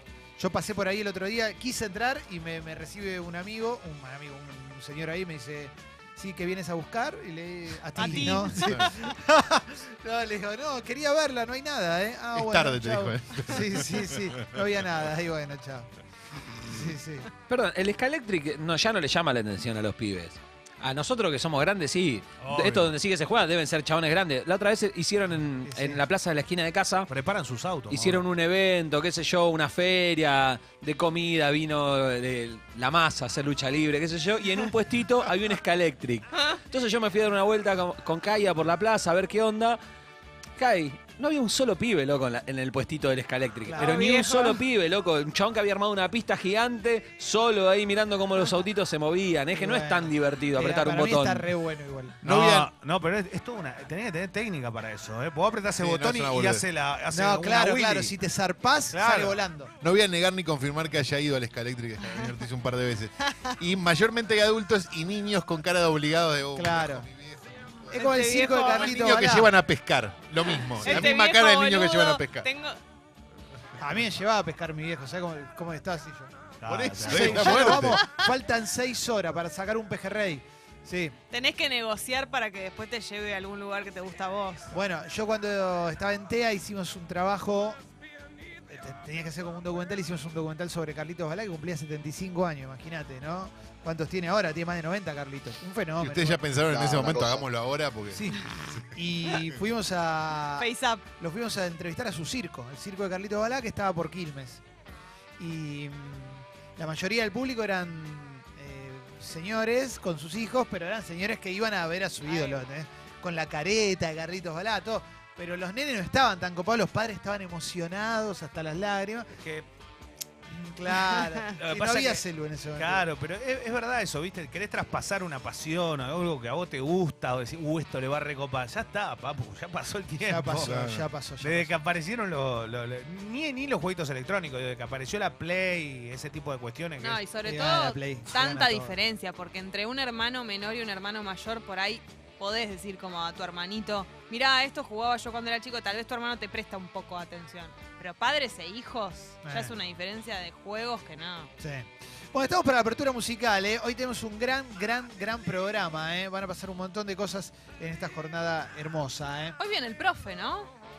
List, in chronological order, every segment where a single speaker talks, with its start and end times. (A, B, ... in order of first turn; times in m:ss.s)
0:00.4-0:15.9 A
0:08.0-0:08.9 B
0:08.0-0:09.1 C
0:12.3-0:14.6 B
0:16.5-0:17.3 A
0:17.5-0:27.1 D
0:22.4-0:22.9 E
0:25.6-0:26.0 A
0:27.1-0:28.3 E
0:27.9-0:39.8 D
0:40.6-0:51.5 D
0:43.6-0:44.1 A
0:43.9-0:44.6 C
0:49.5-0:52.2 A
0:52.2-0:52.7 B
0:52.2-0:58.2 E
0:55.8-0:56.7 B
0:57.1-0:59.7 A
0:58.9-0:59.5 E
0:59.8-1:12.5 B
1:06.6-1:07.1 A
1:07.9-1:09.5 A
1:08.0-1:08.9 E
1:08.2-1:09.0 C
1:10.6-1:12.8 C
1:10.8-1:11.1 A
1:13.8-1:16.3 A
1:16.6-1:17.8 E
1:16.7-1:18.0 B
1:17.0-1:21.2 A
1:17.9-1:18.3 C
1:21.3-1:24.8 C
1:24.7-1:27.8 A
1:28.7-1:37.4 A
1:36.0-1:39.5 B
1:38.1-1:44.6 A
1:40.6-1:41.1 C
1:45.4-1:59.3 A
1:52.3-1:52.6 C
1:59.3-1:59.7 E
2:00.5-2:03.0 A
2:01.6-2:02.2 E
2:02.8-2:10.8 E
2:10.2-2:11.8 A
2:10.6-2:11.1 B
2:11.4-2:17.2 E
2:17.0-2:31.5 C
2:17.4-2:19.0 A
2:29.4-2:29.8 A
2:31.6-2:39.6 A
2:39.6-2:40.7 C